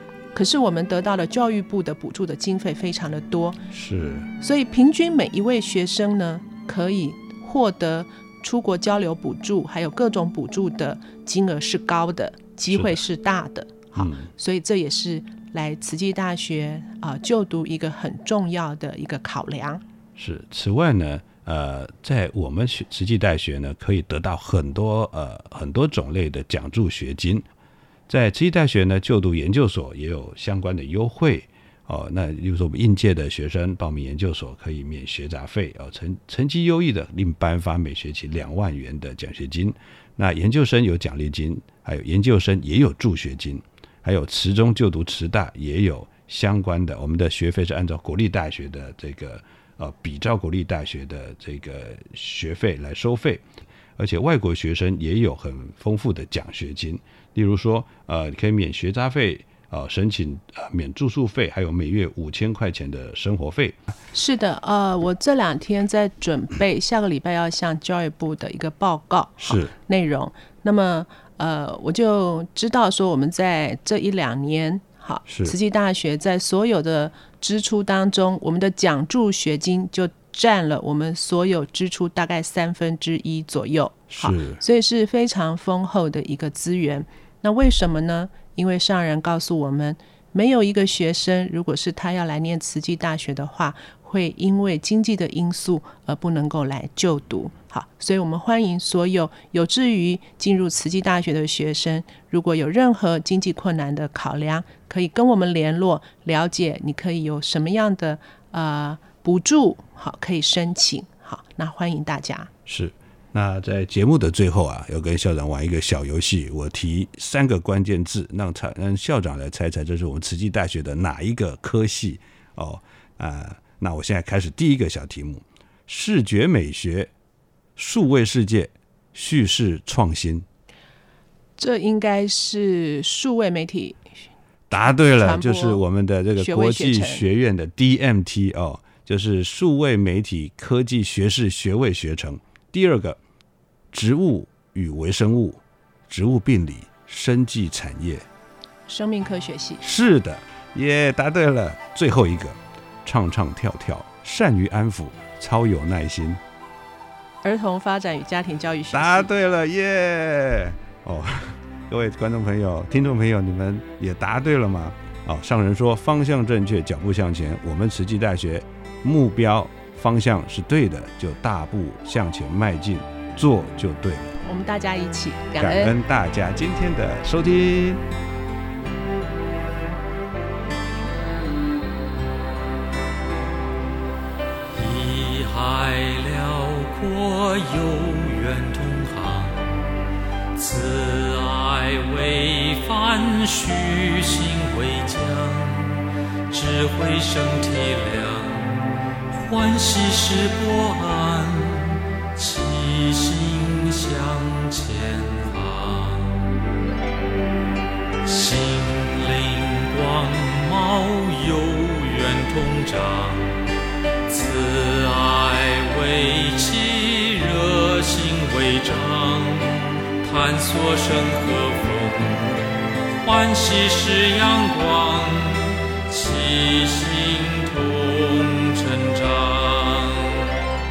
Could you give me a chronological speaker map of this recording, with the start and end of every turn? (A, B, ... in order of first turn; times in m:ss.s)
0:00.3-0:03.6 A
0:03.7-0:04.3 B
0:04.4-0:19.8 A
0:12.7-0:13.0 B
0:13.9-0:14.3 B
0:20.2-0:27.4 B
0:28.1-0:53.4 B
0:54.0-1:03.8 B
1:04.1-1:52.5 A
1:09.4-1:09.7 B
1:15.3-1:15.5 B
1:24.1-1:24.6 B
1:52.6-2:07.1 B
2:07.8-2:10.4 B
2:11.6-2:14.0 A
2:14.7-2:23.2 B
2:15.2-2:15.8 A
2:16.4-2:17.2 A
2:23.9-2:28.3 B
2:28.9-2:29.8 A
2:29.8-2:36.4 B
2:37.4-2:39.3 A
2:38.9-2:54.4 B
2:54.4-2:56.0 A
2:55.6-2:58.0 B
3:04.7-3:09.7 C
3:10.5-3:18.8 C
3:19.4-3:26.4 C
3:28.2-3:33.6 C
3:34.3-3:42.6 C
3:43.2-3:50.5 C